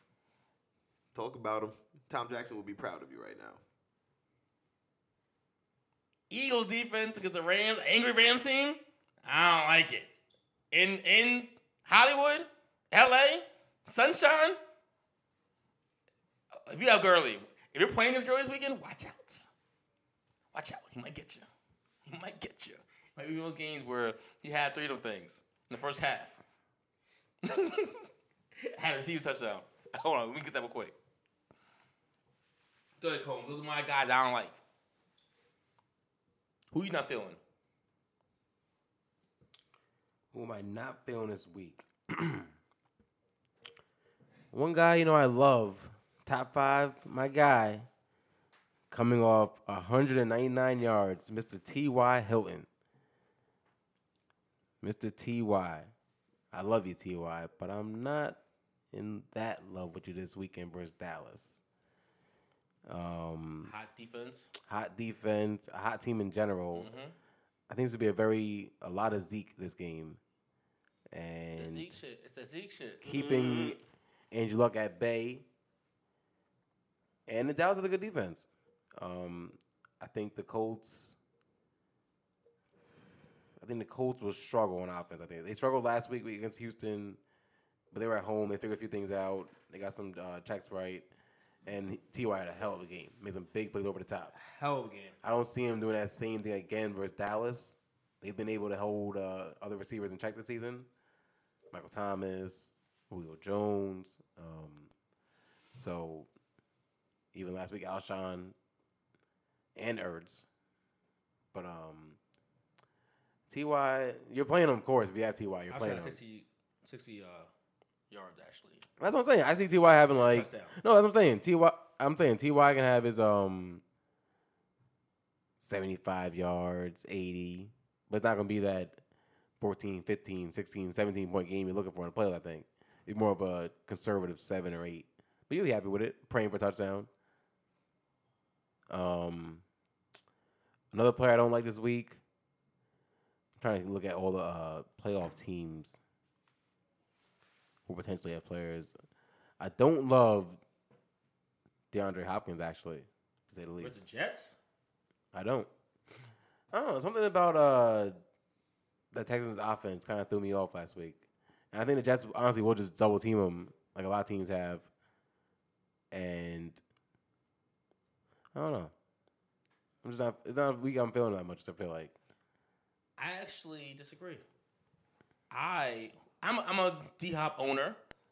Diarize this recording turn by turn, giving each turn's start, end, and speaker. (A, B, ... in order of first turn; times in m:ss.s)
0:01.1-0:03.6 A
0:06.3-0:10.1 B
0:10.7-0:14.6 B
0:16.6-0:19.5 B
0:20.5-0:21.4 B
0:22.0-0:26.4 B
0:27.4-0:28.1 B
0:28.6-0:30.9 B
0:33.0-0:34.6 B
0:36.7-0:37.4 B
0:40.3-0:42.5 C
0:44.5-0:47.9 C
0:48.9-0:52.7 C
0:54.8-0:55.9 C
0:56.5-0:58.4 C
0:58.9-1:01.6 C
1:02.9-1:03.7 C
1:03.6-1:04.5 B
1:04.6-1:06.9 C
1:06.7-1:07.1 B
1:07.7-1:10.2 C
1:11.1-1:11.9 C
1:11.6-1:13.1 B
1:13.0-1:13.8 C
1:13.1-1:13.8 A
1:14.3-1:15.4 C
1:17.3-1:21.2 C
1:23.6-1:27.2 C
1:27.9-1:31.0 C
1:31.6-1:34.3 C
1:34.3-1:35.2 B
1:35.2-1:40.9 C
1:41.7-1:44.9 C
1:45.7-1:46.3 C
1:47.3-1:48.5 C
1:49.8-1:50.4 C
1:51.5-1:52.2 C
1:53.5-1:56.2 C
1:55.7-1:57.5 B
1:58.1-1:58.8 B
1:59.0-2:03.8 C
2:00.1-2:00.7 B
2:05.6-2:09.0 C
2:09.6-2:17.1 C
2:18.9-2:19.6 C
2:20.9-2:22.2 C
2:23.6-2:25.9 C
2:27.9-2:28.9 C
2:29.6-2:30.6 C
2:31.9-2:34.0 C
2:33.8-2:34.6 B
2:35.3-2:35.7 C
2:36.7-2:38.1 C
2:39.1-2:41.2 C
2:41.7-2:44.9 C
2:46.1-2:46.8 C
2:48.5-2:48.9 C
2:50.0-2:52.1 C
2:53.2-2:54.4 B
2:55.5-2:58.0 B